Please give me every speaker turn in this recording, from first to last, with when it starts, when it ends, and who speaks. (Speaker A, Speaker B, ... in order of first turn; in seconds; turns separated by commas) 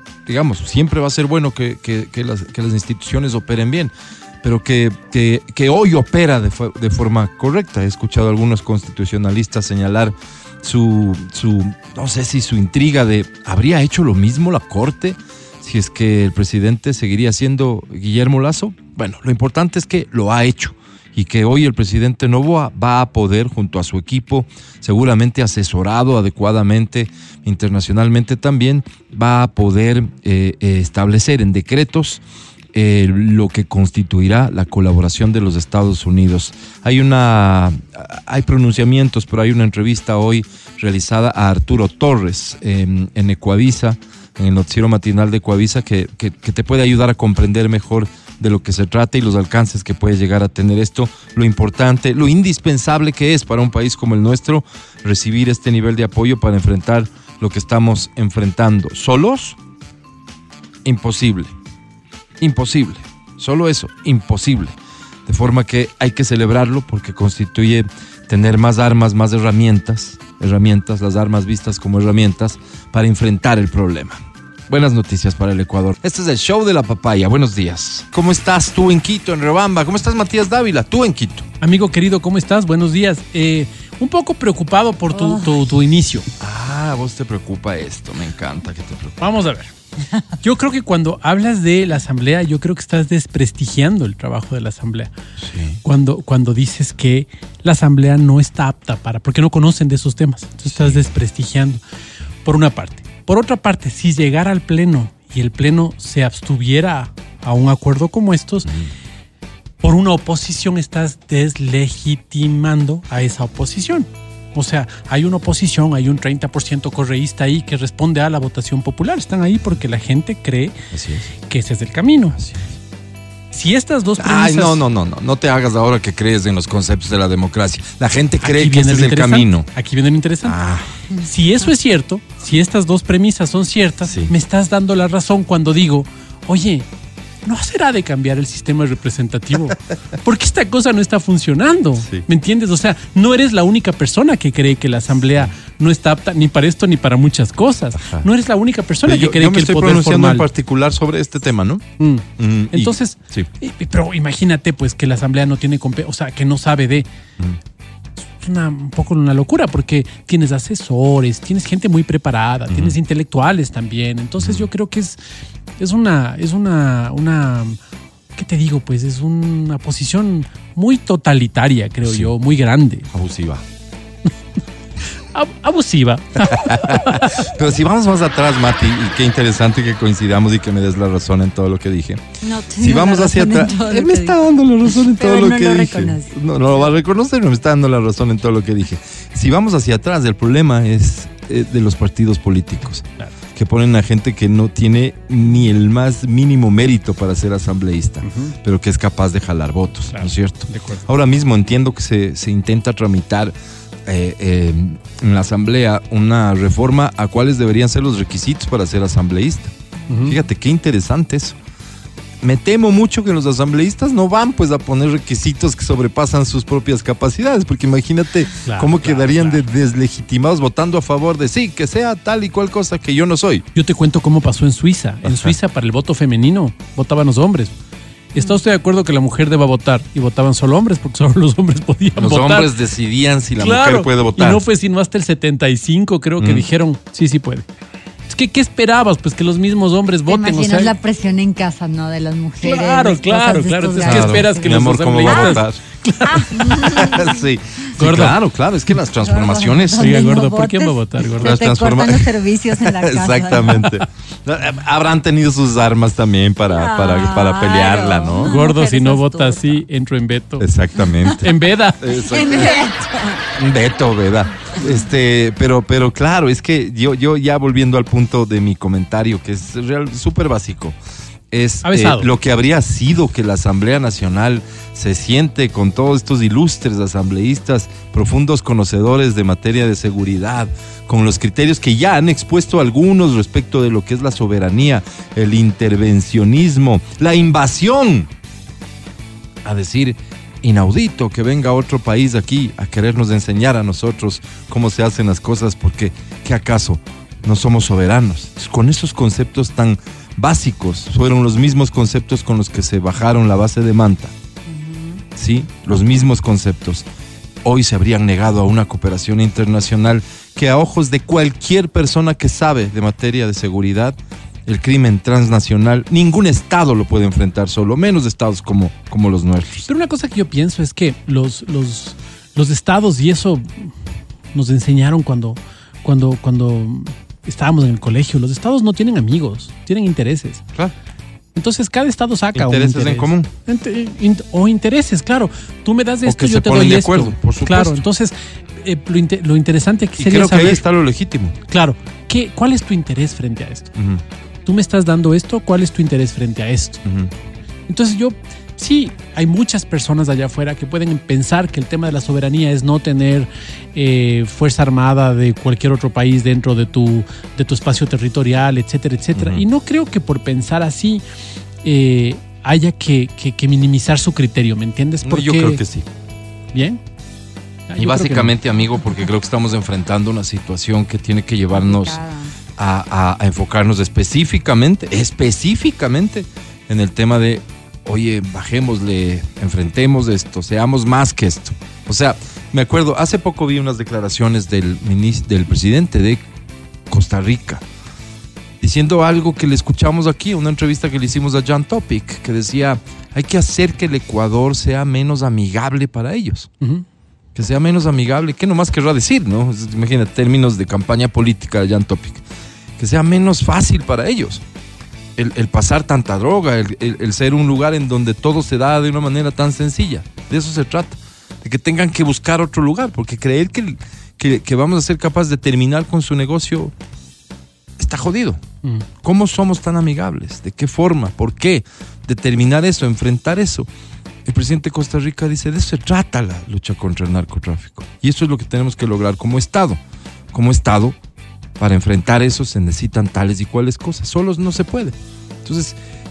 Speaker A: 0.2-32.2, Speaker A: 32.7-59.6, Speaker A: 60.8-61.5, Speaker A: 62.4-64.7, Speaker A: 65.2-81.5, Speaker B: 81.6-86.2, Speaker C: 85.1-85.5, Speaker A: 86.4-89.3, Speaker B: 89.2-89.7, Speaker B: 90.4-95.1, Speaker A: 95.4-95.8, Speaker B: 95.8-101.8, Speaker A: 100.7-101.0, Speaker B: 102.4-108.7, Speaker B: 109.8-120.8, Speaker A: 120.9-121.3, Speaker B: 121.5-122.4, Speaker B: 123.5-124.8, Speaker A: 124.2-129.7, Speaker B: 128.4-130.6, Speaker A: 130.4-130.9, Speaker B: 131.2-136.8, Speaker A: 134.1-134.3, Speaker B: 137.4-150.5, Speaker A: 148.0-148.2, Speaker A: 149.0-151.9, Speaker B: 152.0-157.1, Speaker A: 152.4-153.5, Speaker B: 158.4-165.2, Speaker A: 162.7-162.9, Speaker A: 164.4-164.7, Speaker B: 165.8-167.8, Speaker B: 168.3-173.1, Speaker A: 172.0-172.3, Speaker A: 173.1-173.6, Speaker B: 175.2-177.4, Speaker A: 176.4-182.2, Speaker C: 182.4-186.9, Speaker A: 182.8-203.5, Speaker B: 198.2-198.5, Speaker B: 200.1-201.1, Speaker A: 204.1-211.6, Speaker B: 210.1-210.4, Speaker A: 212.4-223.6, Speaker B: 218.6-219.6, Speaker B: 223.7-227.7, Speaker A: 225.2-225.6, Speaker B: 228.3-232.7, Speaker A: 232.2-234.6, Speaker B: 233.6-237.7, Speaker A: 236.4-236.7, Speaker B: 238.3-240.9, Speaker C: 240.3-245.6, Speaker B: 242.6-246.6, Speaker A: 244.0-245.8, Speaker C: 246.2-247.4, Speaker A: 246.3-250.3, Speaker B: 248.0-248.4, Speaker C: 249.2-253.9, Speaker B: 250.0-251.6, Speaker A: 251.4-258.5, Speaker C: 256.7-259.8, Speaker B: 258.4-260.7, Speaker A: 260.6-261.5, Speaker B: 261.4-262.0, Speaker A: 262.0-262.9, Speaker C: 262.3-263.4, Speaker A: 263.5-271.0, Speaker A: 271.5-288.3, Speaker B: 271.8-272.3, Speaker A: 289.6-304.3, Speaker C: 304.7-305.2, Speaker A: 305.4-307.1, Speaker A: 307.6-319.9, Speaker B: 319.9-323.9, Speaker B: 324.5-330.6, Speaker B: 331.5-340.8, Speaker A: 332.5-333.5, Speaker A: 336.2-338.0, Speaker A: 340.2-341.5, Speaker B: 341.7-343.9, Speaker A: 343.9-344.2, Speaker B: 344.6-347.0, Speaker A: 347.0-347.3, Speaker B: 347.9-361.2, Speaker A: 359.3-359.6, Speaker B: 361.8-365.8, Speaker A: 365.2-366.1, Speaker B: 366.7-367.0, Speaker B: 367.9-368.5, Speaker A: 368.0-372.2, Speaker C: 371.7-372.5, Speaker A: 372.8-386.4, Speaker A: 387.1-387.8, Speaker A: 388.8-396.7, Speaker A: 397.5-402.4, Speaker A: 403.0-404.6, Speaker A: 405.4-416.9, Speaker A: 418.0-418.6, Speaker A: 419.2-423.9, Speaker A: 424.4-430.0, Speaker A: 430.5-431.2, Speaker A: 431.8-436.0